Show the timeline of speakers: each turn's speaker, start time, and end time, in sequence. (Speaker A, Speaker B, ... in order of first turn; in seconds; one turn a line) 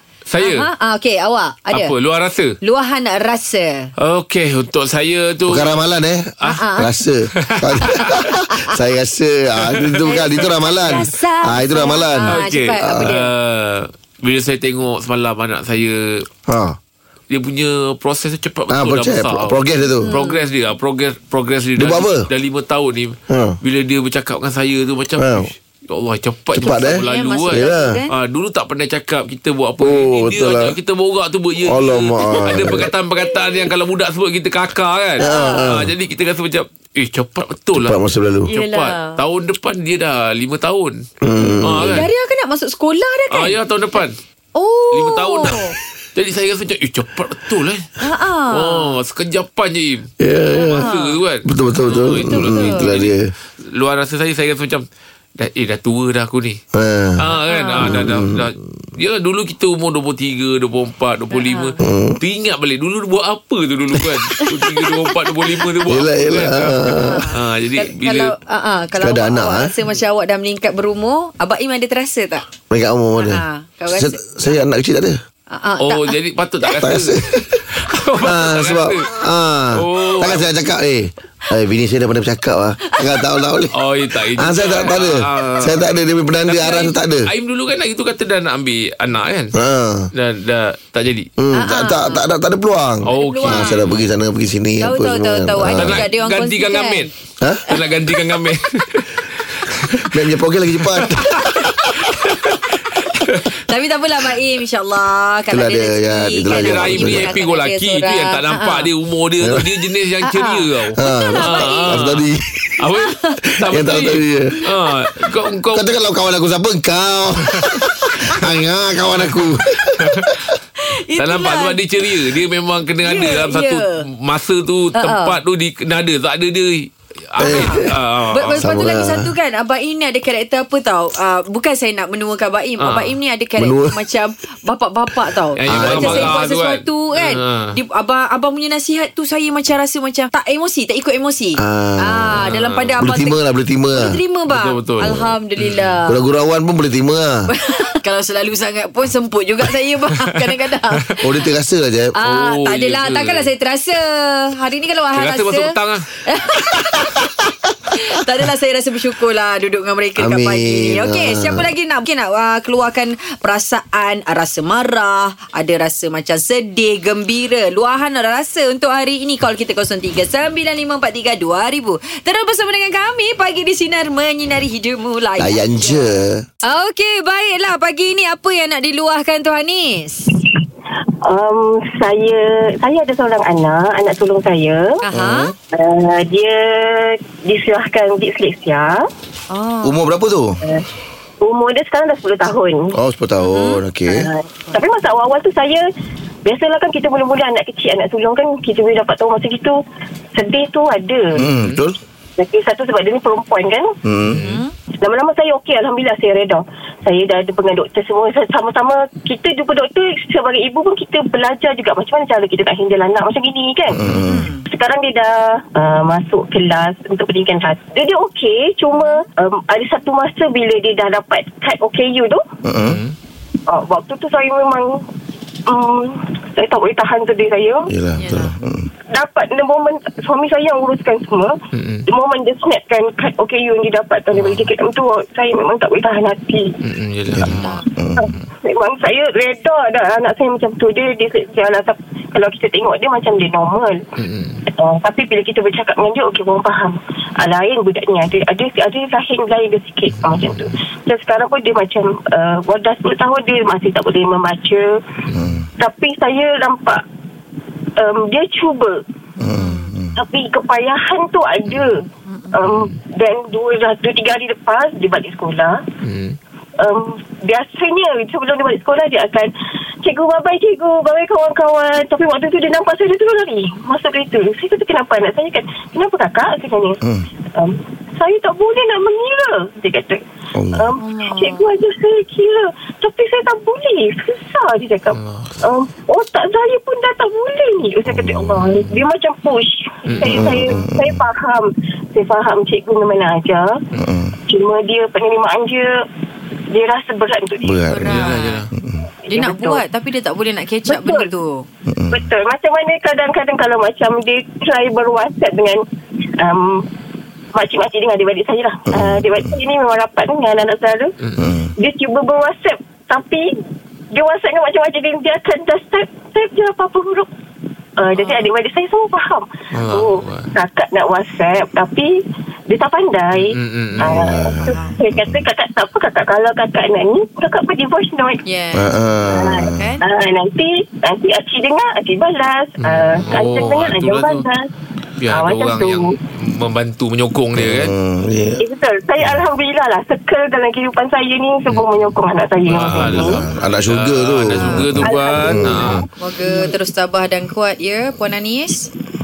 Speaker A: 0.3-0.7
Speaker B: 0.4-1.9
Speaker A: 1.7-2.5
Speaker B: 2.6-3.9
Speaker A: 4.0-5.7
Speaker C: 5.5-13.2
Speaker B: 6.5-6.9
Speaker A: 7.4-8.4
Speaker B: 7.9-8.8
Speaker A: 9.7-10.1
Speaker B: 10.1-13.3
Speaker A: 12.3-16.3
Speaker C: 16.5-16.8
Speaker A: 17.3-38.0
Speaker C: 18.7-20.1
Speaker B: 20.0-20.4
Speaker C: 21.8-22.3
Speaker C: 23.3-23.6
Speaker C: 25.1-25.5
Speaker C: 26.5-28.0
Speaker B: 27.0-28.1
Speaker C: 29.8-30.7
Speaker C: 31.6-32.9
Speaker B: 32.4-32.7
Speaker B: 33.3-33.6
Speaker B: 35.2-35.7
Speaker C: 35.2-35.9
Speaker C: 37.7-38.5
Speaker B: 38.5-39.2
Speaker A: 38.5-41.0
Speaker C: 41.2-42.0
Speaker B: 41.5-43.6
Speaker A: 41.6-42.1
Speaker A: 43.3-44.2
Speaker B: 44.5-45.7
Speaker A: 44.9-47.9
Speaker B: 48.0-49.0
Speaker A: 48.5-50.1
Speaker C: 50.2-50.9
Speaker B: 50.5-51.2
Speaker A: 50.7-56.6
Speaker C: 51.4-53.3
Speaker B: 52.1-52.9
Speaker C: 56.7-57.2
Speaker A: 57.2-68.3
Speaker B: 57.4-58.1
Speaker C: 57.8-58.5
Speaker B: 61.3-61.8
Speaker C: 61.8-62.2
Speaker B: 64.5-65.1
Speaker C: 65.8-67.3
Speaker B: 67.0-72.4
Speaker C: 69.0-69.7
Speaker C: 72.7-75.2
Speaker B: 73.2-74.6
Speaker B: 75.5-76.9
Speaker A: 75.8-77.1
Speaker C: 76.8-77.6
Speaker A: 77.7-79.1
Speaker C: 78.2-83.7
Speaker A: 79.7-80.5
Speaker B: 82.8-83.4
Speaker A: 83.7-85.9
Speaker C: 84.3-87.3
Speaker A: 86.5-89.5
Speaker C: 89.5-90.1
Speaker A: 90.1-91.3
Speaker C: 91.4-96.0
Speaker B: 91.5-92.2
Speaker A: 93.0-94.0
Speaker B: 93.1-93.8
Speaker B: 94.8-97.1
Speaker A: 95.8-97.1
Speaker C: 97.4-97.7
Speaker A: 97.7-100.1
Speaker C: 100.0-102.1
Speaker A: 100.8-103.5
Speaker B: 101.4-101.8
Speaker B: 103.6-108.9
Speaker C: 105.5-107.3
Speaker A: 106.5-112.3
Speaker C: 109.4-109.7
Speaker B: 110.2-112.0
Speaker C: 111.0-112.8
Speaker A: 112.8-115.9
Speaker B: 112.9-113.4
Speaker C: 113.5-114.6
Speaker C: 115.7-120.5
Speaker A: 119.2-120.4
Speaker B: 120.8-121.8
Speaker A: 121.2-128.7
Speaker B: 123.0-124.0
Speaker B: 124.9-125.4
Speaker C: 127.4-128.0
Speaker B: 127.5-143.4
Speaker C: 128.6-129.3
Speaker A: 132.8-133.2
Speaker C: 133.6-134.0
Speaker A: 135.6-137.8
Speaker C: 135.7-136.3
Speaker C: 141.6-144.2
Speaker A: 142.4-142.9
Speaker B: 143.9-146.2
Speaker A: 144.5-146.0
Speaker C: 146.1-147.4
Speaker B: 147.5-151.3
Speaker C: 151.2-152.1
Speaker B: 152.2-176.1
Speaker A: 152.2-153.5
Speaker A: 155.2-156.1
Speaker C: 160.2-161.7
Speaker C: 175.4-176.4
Speaker B: 176.6-180.3
Speaker D: 181.2-184.8
Speaker B: 185.0-185.5
Speaker C: 185.1-185.5
Speaker D: 185.7-189.0
Speaker B: 189.5-190.0
Speaker C: 189.8-190.6
Speaker D: 191.4-192.9
Speaker C: 192.9-194.3
Speaker B: 193.4-193.8
Speaker D: 194.1-195.8
Speaker D: 196.4-199.8
Speaker D: 200.3-201.2
Speaker C: 201.4-202.0
Speaker D: 202.4-203.9
Speaker C: 204.0-204.4
Speaker A: 204.3-204.6
Speaker B: 204.3-204.7
Speaker D: 205.0-214.0
Speaker C: 213.9-214.5
Speaker B: 214.2-214.7
Speaker D: 214.7-222.4
Speaker B: 218.9-219.2
Speaker C: 222.6-223.0
Speaker A: 222.8-223.1
Speaker D: 223.7-225.0
Speaker D: 225.7-227.9
Speaker C: 227.9-228.9
Speaker B: 228.2-228.5
Speaker D: 229.1-231.5
Speaker A: 231.7-232.0
Speaker D: 232.1-236.8
Speaker A: 234.3-234.7
Speaker A: 236.8-237.8
Speaker C: 237.3-238.3
Speaker B: 237.5-237.8
Speaker D: 238.2-244.0
Speaker A: 244.2-244.6
Speaker D: 244.7-254.8
Speaker A: 250.1-250.6
Speaker C: 255.3-255.7
Speaker D: 255.8-257.0
Speaker D: 258.0-259.0
Speaker C: 259.4-260.2
Speaker B: 259.6-259.9
Speaker D: 260.2-262.0
Speaker D: 262.5-265.8
Speaker A: 262.6-262.9
Speaker A: 266.0-266.4
Speaker D: 266.8-269.5
Speaker D: 270.0-277.0
Speaker D: 277.6-280.2
Speaker C: 280.6-280.9
Speaker D: 280.8-293.7
Speaker B: 281.0-281.7
Speaker A: 285.1-285.5
Speaker C: 288.1-288.8
Speaker A: 290.1-290.4
Speaker C: 290.2-291.2
Speaker C: 294.0-294.3
Speaker D: 294.5-295.9
Speaker D: 296.7-297.8
Speaker C: 297.6-299.1
Speaker B: 297.9-298.6
Speaker A: 298.0-298.7
Speaker B: 299.3-301.6
Speaker D: 299.4-299.8
Speaker D: 300.9-301.2
Speaker C: 301.9-302.2
Speaker D: 302.1-305.8
Speaker D: 306.4-306.8
Speaker D: 307.5-311.1
Speaker C: 308.9-309.5
Speaker A: 311.2-311.5
Speaker C: 311.4-311.7
Speaker D: 311.8-313.4
Speaker D: 314.1-317.3
Speaker D: 318.0-322.1
Speaker B: 318.1-318.5
Speaker A: 319.7-320.5
Speaker D: 322.7-328.4
Speaker A: 323.3-324.1
Speaker C: 324.0-325.4
Speaker B: 324.6-325.0
Speaker B: 328.4-328.9
Speaker C: 328.7-329.9
Speaker D: 329.3-334.7
Speaker B: 329.7-330.0
Speaker A: 332.8-334.4
Speaker A: 335.2-337.9
Speaker D: 335.3-336.1
Speaker C: 337.6-338.6
Speaker D: 338.6-343.4
Speaker A: 341.7-342.1
Speaker A: 342.6-346.1
Speaker C: 342.8-346.0
Speaker B: 344.6-344.9
Speaker D: 345.0-346.0
Speaker B: 346.2-348.9